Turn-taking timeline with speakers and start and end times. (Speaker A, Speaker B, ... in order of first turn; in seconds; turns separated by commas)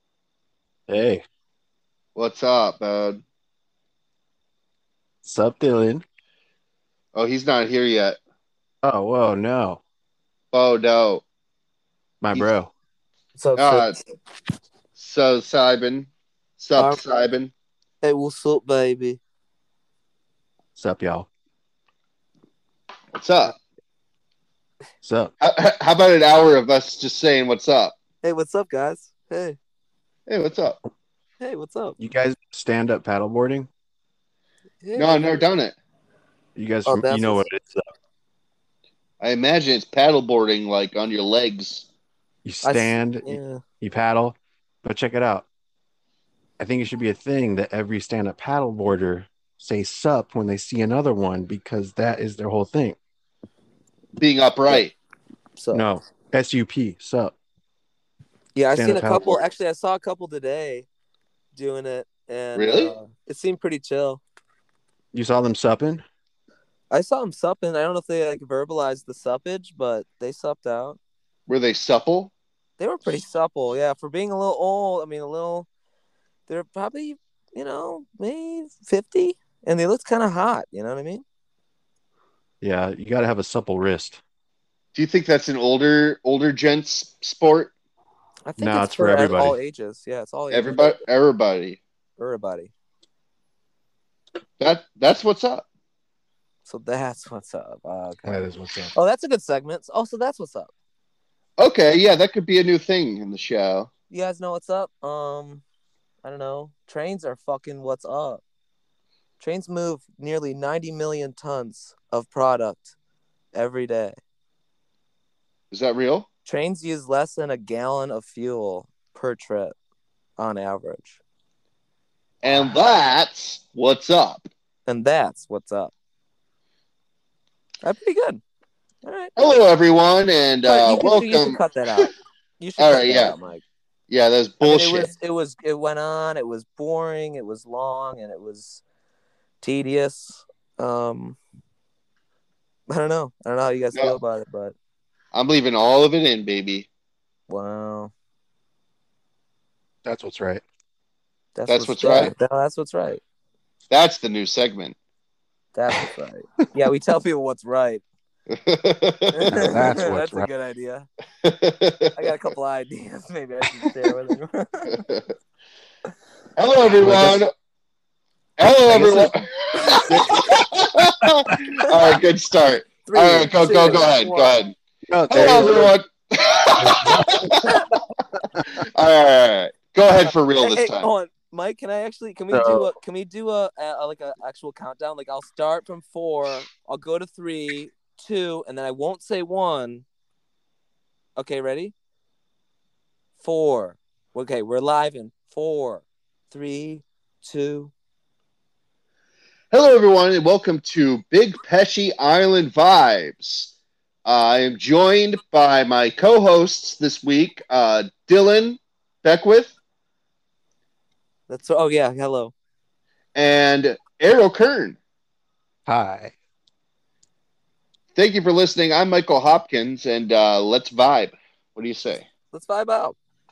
Speaker A: 0.9-1.2, Speaker B: 2.1-3.2, Speaker A: 5.2-6.0, Speaker B: 7.1-8.2, Speaker A: 8.8-9.8, Speaker B: 10.5-11.2, Speaker A: 12.2-12.7, Speaker C: 13.3-13.9, Speaker B: 13.6-13.9, Speaker B: 14.9-17.5, Speaker C: 18.0-19.2, Speaker A: 20.8-21.3, Speaker B: 23.1-23.5, Speaker A: 25.0-25.3, Speaker B: 25.4-27.9, Speaker C: 28.2-29.6, Speaker B: 30.3-30.8, Speaker C: 31.4-31.9, Speaker A: 32.0-33.7, Speaker C: 34.8-35.4, Speaker B: 35.0-35.7, Speaker A: 36.5-37.9, Speaker C: 36.9-37.5, Speaker B: 39.2-41.9, Speaker A: 42.4-45.5, Speaker C: 42.6-43.6, Speaker A: 46.6-53.0, Speaker B: 54.2-54.9, Speaker C: 55.6-55.9, Speaker A: 55.7-57.3, Speaker C: 58.5-60.9, Speaker A: 58.8-59.4, Speaker C: 61.5-64.2, Speaker B: 62.5-62.9, Speaker A: 65.1-66.0, Speaker C: 66.9-71.0, Speaker B: 71.5-72.3, Speaker C: 72.8-75.7, Speaker C: 76.5-81.2, Speaker A: 82.6-84.2, Speaker B: 84.9-87.7, Speaker C: 88.5-90.9, Speaker A: 88.6-89.6, Speaker B: 90.5-91.8, Speaker C: 92.2-92.7, Speaker B: 94.6-95.6, Speaker C: 96.7-98.3, Speaker A: 98.2-98.9, Speaker C: 98.9-100.7, Speaker B: 101.6-103.9, Speaker C: 104.1-105.6, Speaker C: 106.2-108.4, Speaker C: 109.4-112.9, Speaker C: 113.5-114.2, Speaker B: 115.7-116.2, Speaker C: 116.5-119.7, Speaker C: 120.4-121.2, Speaker B: 122.4-124.5, Speaker C: 124.9-125.9, Speaker C: 127.8-128.4, Speaker C: 129.0-129.3, Speaker B: 129.3-131.6, Speaker C: 130.7-133.6, Speaker B: 132.8-133.3, Speaker B: 134.1-135.1, Speaker C: 134.6-138.8, Speaker C: 139.6-141.4, Speaker C: 142.9-144.7, Speaker B: 145.3-146.9, Speaker C: 147.5-148.1, Speaker A: 150.0-150.6, Speaker C: 151.6-153.2, Speaker B: 151.7-152.3, Speaker B: 153.9-154.9, Speaker C: 155.7-158.0, Speaker B: 158.5-159.9, Speaker C: 159.3-161.1, Speaker A: 159.5-160.5, Speaker B: 161.4-162.1, Speaker C: 162.2-165.0, Speaker B: 164.9-165.2, Speaker B: 166.6-167.5, Speaker A: 167.0-167.4, Speaker B: 168.6-174.7, Speaker A: 168.9-169.3, Speaker A: 170.1-170.5, Speaker C: 173.1-174.6, Speaker A: 175.1-175.9, Speaker B: 175.3-177.6, Speaker A: 176.8-177.6, Speaker C: 177.6-177.9, Speaker B: 178.8-181.1, Speaker C: 180.6-190.0, Speaker A: 182.5-182.9, Speaker C: 191.4-191.9, Speaker C: 193.4-197.9, Speaker B: 199.7-203.7, Speaker B: 204.2-209.7, Speaker C: 211.5-212.5, Speaker B: 213.3-215.0, Speaker A: 215.8-216.3, Speaker B: 218.2-222.2, Speaker C: 222.5-223.2